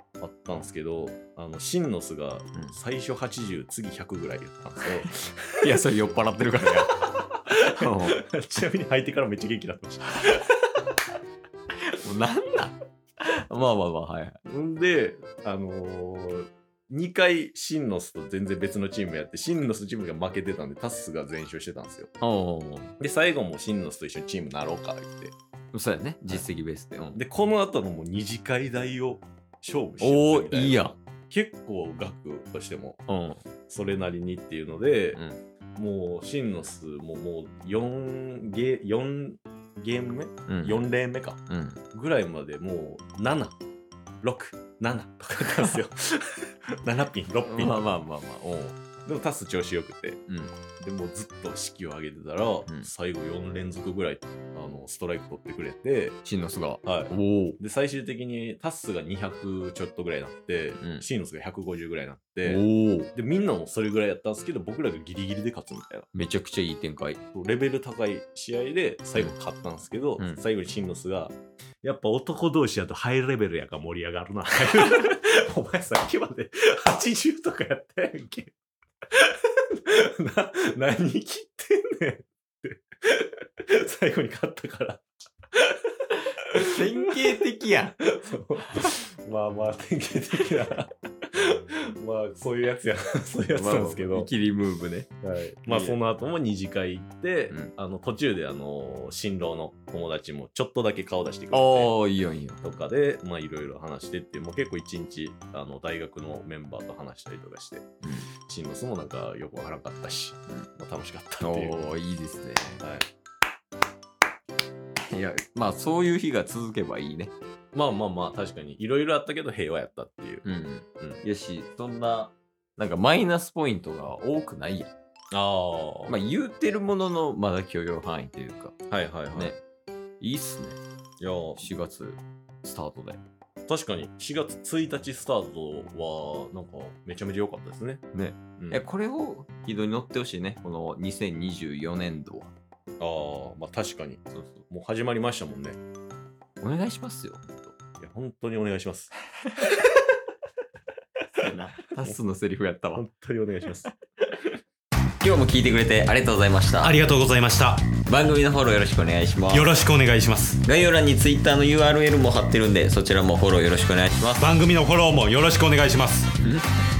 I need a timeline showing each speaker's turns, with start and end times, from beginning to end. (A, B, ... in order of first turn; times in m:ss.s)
0:00.2-0:05.6 A
0:05.6-0:08.2 B
0:07.8-0:10.5 A
0:11.9-0:14.4 B
0:14.4-0:22.1 A
0:22.2-0:22.9 B
0:23.0-0:25.3 A
0:25.7-0:27.2 B
0:27.1-0:33.0 A
0:30.0-0:30.9 B
0:33.1-0:33.4 B
0:33.7-0:35.2 A
0:35.1-0:35.4 B
0:35.8-0:41.4 A
0:40.5-0:40.8 B
0:41.5-0:41.8 B
0:41.9-0:43.6 A
0:44.2-0:47.9 A
0:47.5-0:48.8 B
0:49.0-0:50.2 A
0:50.3-0:50.5 B
0:50.8-0:56.2 A
0:56.2-0:57.6 B
0:56.8-1:06.1 A
1:00.8-1:01.0 B
1:02.4-1:03.1 B
1:06.1-1:07.2 B
1:07.3-1:18.5 A
1:19.1-1:25.8 A
1:26.6-1:28.1 B
1:28.1-1:34.3 A
1:33.5-1:35.1 B
1:35.2-1:41.9 A
1:35.7-1:36.0 B
1:41.5-1:42.7 B
1:42.6-1:47.8 A
1:48.0-1:48.3 B
1:48.4-1:51.8 A
1:51.4-1:52.8 B
1:52.8-1:53.1 A
1:55.1-1:57.3 B
1:57.7-2:00.4 A
2:00.4-2:04.9 B
2:05.3-2:06.2 A
2:06.1-2:08.8 B
2:08.9-2:09.6 A
2:09.3-2:09.6 B
2:10.2-2:10.8 B
2:11.2-2:11.7 A
2:11.6-2:13.2 B
2:13.7-2:18.0 A
2:18.1-2:22.5 B
2:18.6-2:18.9 A
2:23.0-2:25.8 A
2:24.3-2:24.6 B
2:26.6-2:27.7 B
2:28.0-2:29.1 A
2:31.4-2:33.0 B
2:32.9-2:33.9 A
2:35.2-2:37.0 B
2:36.8-2:37.9 C
2:38.0-2:39.8 B
2:39.5-2:40.6 C
2:40.6-2:44.6 B
2:44.4-2:46.3 C
2:46.4-2:46.6 B